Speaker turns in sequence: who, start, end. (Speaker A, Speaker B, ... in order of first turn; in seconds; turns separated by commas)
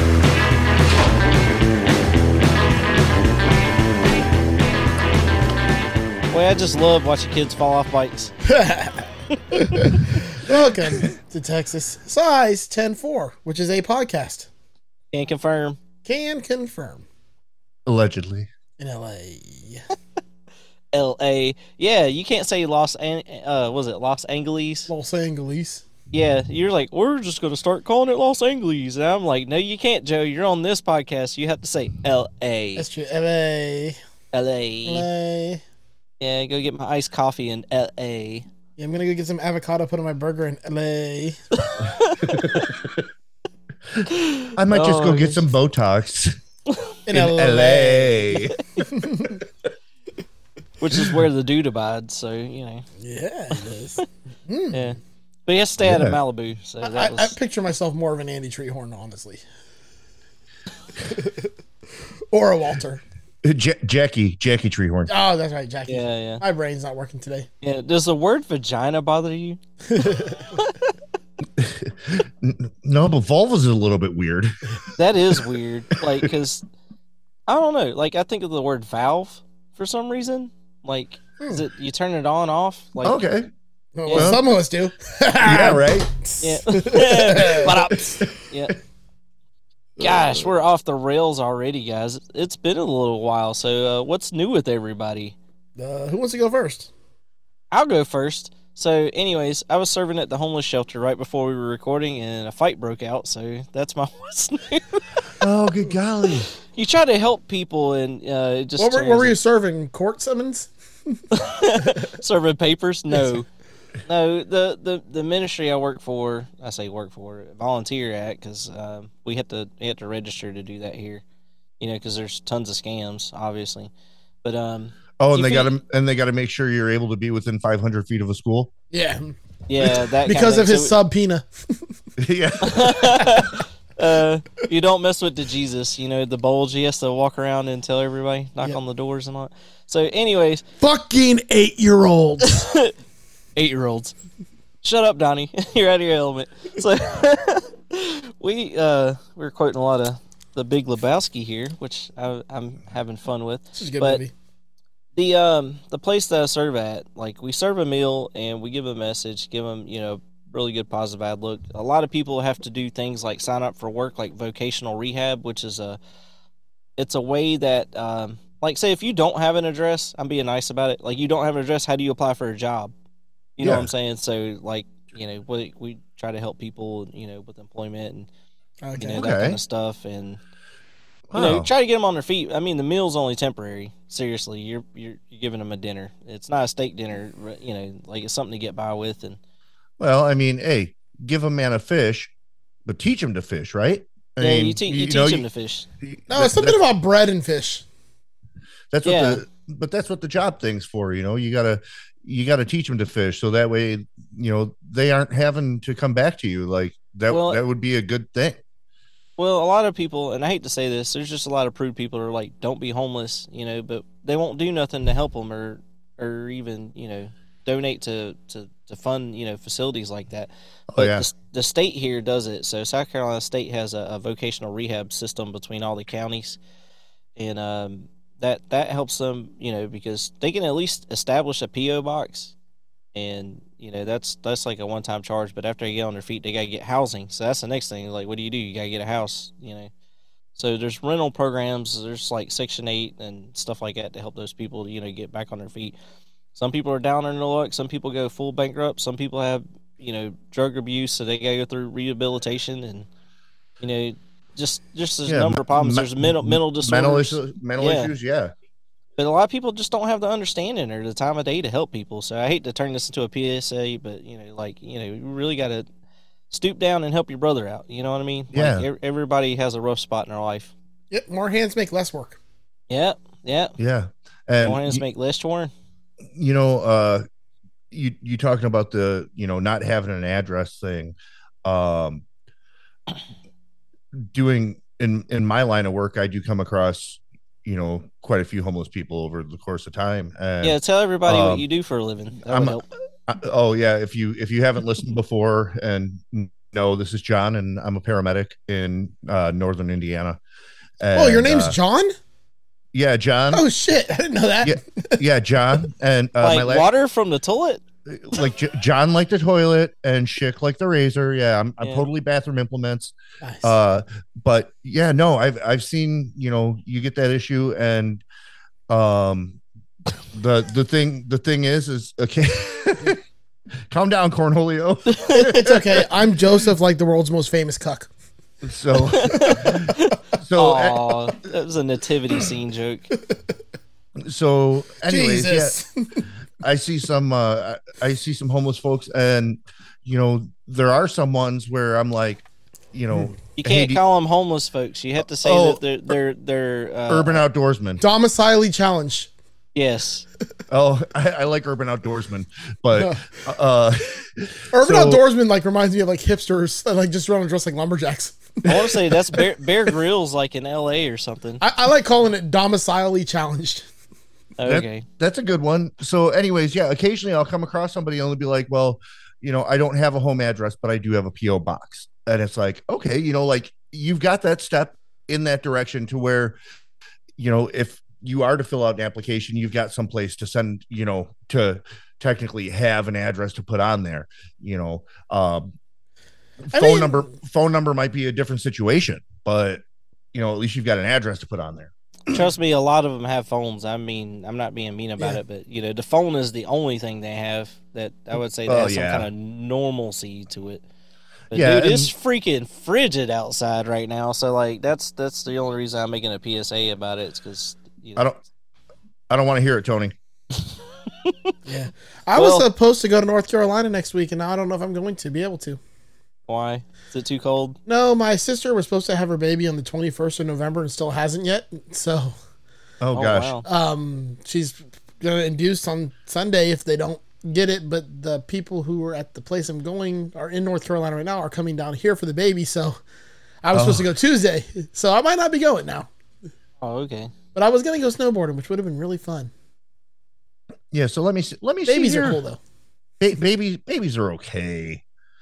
Speaker A: 6.3-8.3, Speaker B: 8.5-14.5, Speaker A: 15.1-15.8, Speaker B: 16.0-17.0, Speaker C: 17.9-18.5, Speaker B: 18.8-19.8, Speaker A: 20.9-24.9, Speaker B: 24.9-25.8, Speaker A: 26.1-32.9, Speaker B: 32.8-34.0, Speaker A: 34.3-35.1, Speaker B: 34.9-35.6, Speaker A: 36.2-38.5, Speaker B: 38.8-41.4, Speaker A: 41.6-42.7, Speaker C: 42.3-42.7, Speaker A: 44.1-45.4, Speaker C: 44.6-46.3, Speaker B: 47.1-49.4, Speaker C: 47.1-48.5, Speaker A: 50.8-52.8, Speaker B: 53.0-54.9, Speaker A: 54.7-57.4, Speaker C: 55.8-56.2, Speaker B: 56.8-59.4, Speaker B: 61.1-61.5, Speaker B: 62.3-63.0, Speaker C: 63.4-65.1, Speaker B: 65.1-67.5, Speaker A: 65.9-66.4, Speaker A: 67.6-69.6, Speaker B: 69.9-70.5, Speaker A: 70.6-70.8, Speaker C: 71.6-74.5, Speaker A: 75.0-76.6, Speaker A: 77.5-83.2, Speaker C: 83.0-83.5, Speaker B: 84.0-88.2, Speaker A: 84.1-84.3, Speaker C: 84.1-84.4, Speaker C: 85.4-86.1, Speaker A: 86.4-88.7, Speaker B: 90.0-90.5, Speaker A: 90.0-95.3, Speaker B: 95.8-96.9, Speaker A: 97.7-105.0, Speaker C: 105.4-106.5, Speaker A: 106.7-109.3, Speaker B: 108.8-111.2, Speaker A: 111.3-113.5, Speaker A: 114.1-121.2, Speaker A: 121.8-123.9, Speaker A: 124.4-125.7, Speaker C: 125.2-128.7, Speaker B: 128.9-129.3, Speaker A: 129.7-130.9, Speaker B: 130.2-131.8, Speaker C: 132.2-133.0, Speaker A: 132.6-140.6, Speaker B: 140.8-142.6, Speaker A: 142.6-142.9, Speaker A: 143.6-144.1, Speaker A: 144.8-154.2, Speaker B: 153.7-154.3, Speaker A: 155.2-166.0, Speaker A: 167.0-172.9, Speaker A: 173.6-178.3, Speaker C: 173.6-173.9, Speaker B: 178.8-179.2, Speaker A: 179.0-180.4, Speaker C: 179.2-179.6, Speaker C: 181.3-181.7, Speaker A: 181.3-189.4, Speaker C: 190.0-192.3, Speaker C: 192.8-195.4, Speaker A: 194.4-195.9, Speaker C: 196.0-196.8, Speaker B: 196.3-197.8, Speaker C: 198.9-208.6, Speaker A: 199.0-199.4, Speaker A: 207.3-207.6, Speaker A: 209.4-226.6, Speaker C: 220.9-221.3, Speaker A: 227.3-232.5, Speaker A: 233.1-239.9, Speaker A: 240.5-245.9, Speaker A: 246.5-253.1, Speaker A: 253.8-258.1, Speaker C: 255.2-258.5, Speaker A: 259.2-265.9, Speaker A: 266.5-270.7, Speaker C: 268.5-268.9, Speaker B: 271.1-272.4, Speaker A: 272.9-273.7, Speaker C: 273.8-275.0, Speaker A: 274.6-275.7, Speaker C: 276.3-277.2, Speaker C: 277.9-282.2, Speaker C: 284.1-291.6, Speaker A: 290.6-292.8, Speaker C: 292.4-300.4, Speaker C: 301.0-301.8, Speaker B: 301.1-302.1, Speaker C: 302.9-303.6, Speaker B: 303.5-305.2, Speaker C: 304.6-306.9, Speaker A: 306.4-307.8, Speaker C: 308.1-318.2, Speaker A: 311.8-312.1, Speaker B: 313.4-313.7, Speaker C: 318.9-319.6, Speaker C: 320.3-323.2, Speaker C: 323.9-326.0, Speaker A: 325.1-325.5, Speaker B: 325.5-328.1, Speaker C: 328.6-331.2, Speaker A: 329.1-333.1, Speaker B: 329.3-329.8, Speaker C: 334.2-335.8, Speaker B: 335.1-335.9, Speaker C: 336.6-344.0, Speaker A: 343.6-347.4, Speaker C: 345.4-345.8, Speaker C: 347.1-348.0, Speaker B: 348.0-349.3, Speaker A: 349.7-350.2, Speaker C: 350.7-355.2, Speaker B: 352.9-353.2, Speaker B: 354.7-358.8, Speaker A: 358.6-361.6, Speaker B: 361.6-363.8, Speaker A: 364.6-365.0, Speaker C: 364.6-376.6, Speaker C: 377.4-385.7, Speaker C: 386.6-389.8, Speaker B: 386.7-387.3, Speaker C: 390.3-392.4, Speaker A: 392.3-400.8, Speaker C: 398.6-399.3, Speaker C: 401.5-402.1, Speaker A: 401.5-408.2, Speaker C: 409.3-410.1, Speaker A: 411.2-411.5, Speaker B: 411.6-415.8, Speaker A: 412.4-412.6, Speaker A: 416.5-417.8, Speaker B: 417.9-422.3, Speaker C: 423.0-423.5, Speaker A: 423.1-423.6, Speaker B: 423.6-433.0, Speaker B: 433.6-436.1, Speaker C: 433.7-434.1, Speaker A: 436.8-437.3, Speaker B: 437.5-439.5, Speaker C: 440.9-442.4, Speaker B: 441.9-442.6, Speaker C: 443.2-445.0